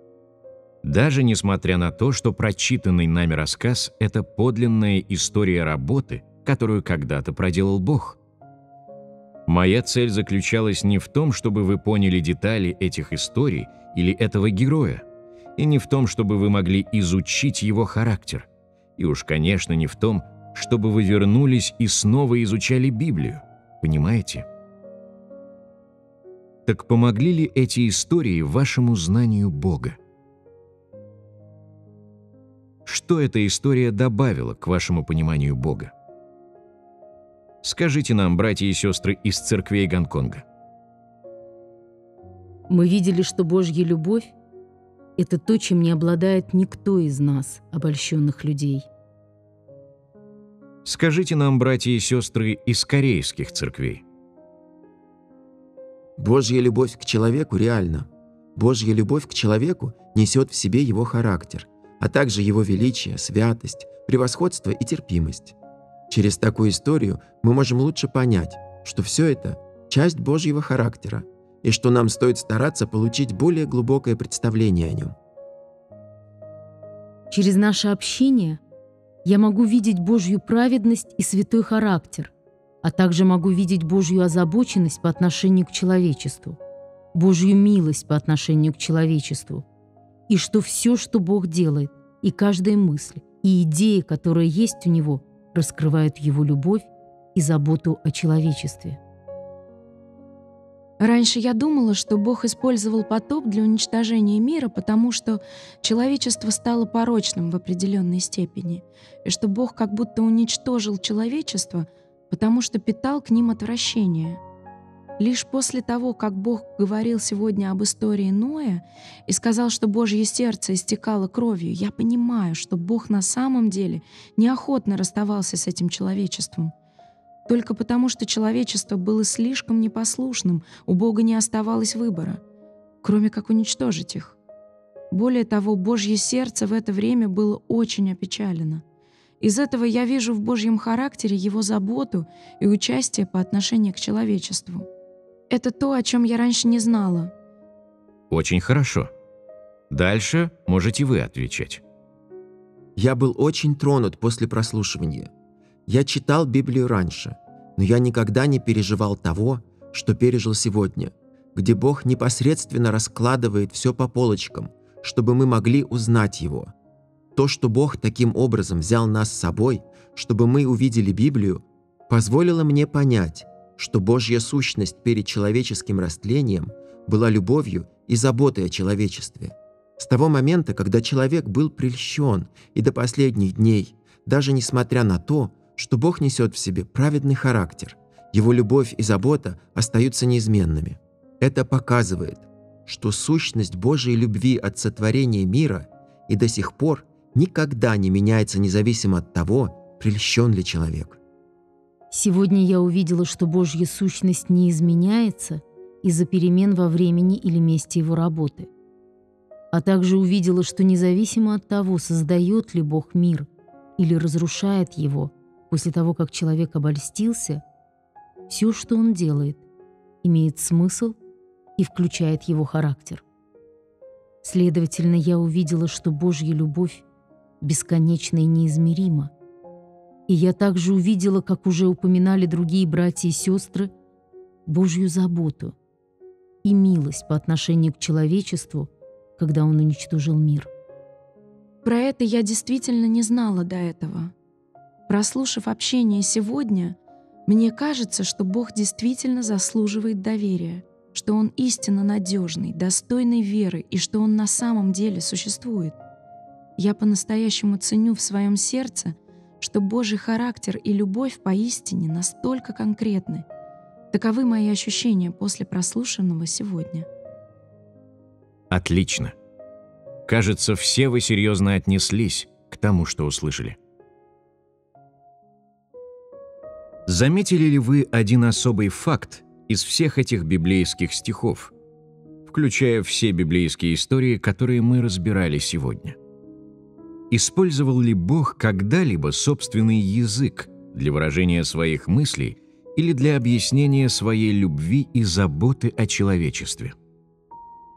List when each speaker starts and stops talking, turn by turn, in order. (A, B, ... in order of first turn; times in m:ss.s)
0:00.8-0:08.2 A
0:09.5-0:15.0 A
0:15.6-0:24.5 A
0:26.7-0:30.0 A
0:32.8-0:35.9 A
0:37.6-0:40.4 A
0:42.7-0:44.4 B
0:45.2-0:48.9 B
0:50.8-0:54.0 A
0:56.2-1:05.6 C
1:06.1-1:15.1 C
1:17.3-1:18.6 B
1:19.2-1:26.6 B
1:27.1-1:29.6 B
1:30.3-1:39.0 B
1:41.0-1:54.4 D
1:55.2-2:06.7 D
2:07.5-2:12.4 D
2:13.0-2:14.4 D
2:15.1-2:18.8 D
2:19.4-2:24.9 D
2:25.5-2:27.3 D
2:28.3-2:29.1 A
2:29.9-2:31.8 A
2:33.0-2:35.3 C
2:35.9-2:46.7 C
2:47.4-3:21.2 C
3:22.1-3:28.7 B
3:29.7-3:37.6 B
3:38.5-3:39.6 B
3:40.2-3:41.2 B
3:41.8-3:43.2 B
3:44.4-3:47.0 B
3:47.6-3:49.3 B
3:50.3-3:53.9 B
3:54.7-3:55.8 B
3:56.6-4:00.7 B
4:01.8-4:04.3 D
4:05.1-4:15.9 D
4:16.8-4:23.4 D
4:24.1-4:27.1 D
4:28.7-4:29.4 A
4:30.3-4:33.8 A
4:37.1-4:41.7 A
4:42.5-4:46.2 A
4:47.3-4:57.0 A